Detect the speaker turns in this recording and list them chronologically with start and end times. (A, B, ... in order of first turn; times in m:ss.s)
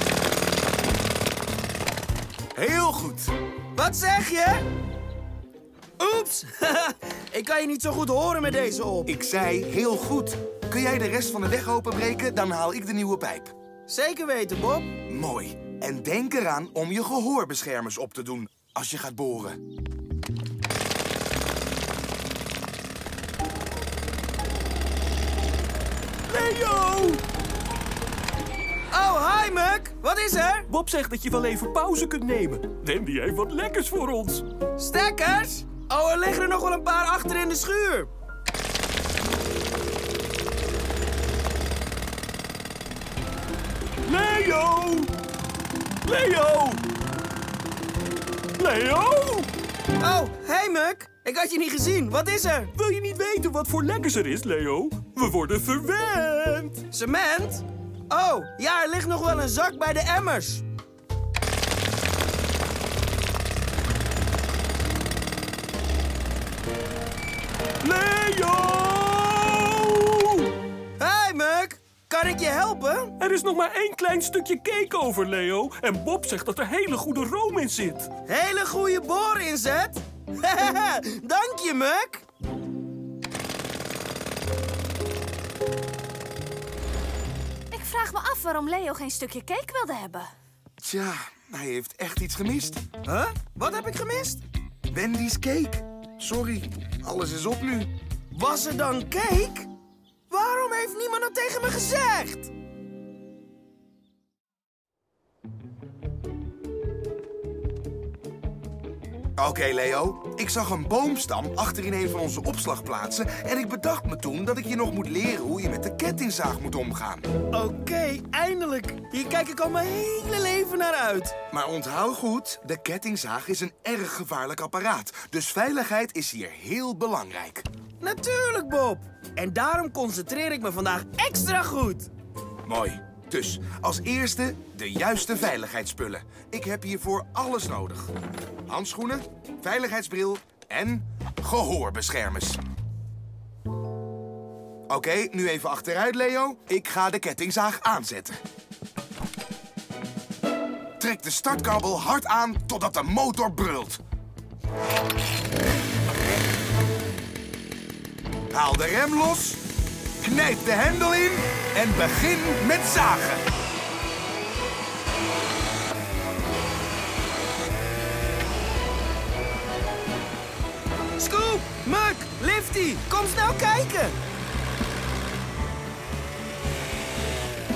0:02.5-0:03.3 A
0:03.7-0:04.6 B
0:06.0-0:09.1 B
0:09.1-0:13.5 A
0:13.9-0:14.9 B
0:15.1-0:19.6 A
0:26.3-0:27.2 C
0:28.9-0:30.7 B
0:30.7-0:34.4 C
0:34.8-0:38.1 B
0:44.0-0:45.1 C
0:46.0-0:46.8 C
0:48.6-0:49.5 C
0:50.0-0:52.7 B
0:52.8-0:56.8 C
0:56.9-1:00.6 B
1:07.8-1:10.5 C
1:11.0-1:13.2 B
1:13.2-1:18.1 C
1:18.2-1:22.2 B
1:27.7-1:30.3 D
1:30.8-1:32.8 A
1:33.0-1:34.4 B
1:34.9-1:37.9 A
1:38.3-1:39.7 B
1:40.3-1:42.5 B
1:49.4-1:57.3 A
1:57.5-2:01.3 B
2:01.5-2:07.6 A
2:08.0-2:12.1 B
2:12.6-2:18.1 A
2:18.7-2:22.6 A
2:24.9-2:28.4 A
2:31.0-2:34.0 A
2:38.5-2:39.6 A
2:40.2-2:43.4 A
2:51.2-2:54.2 B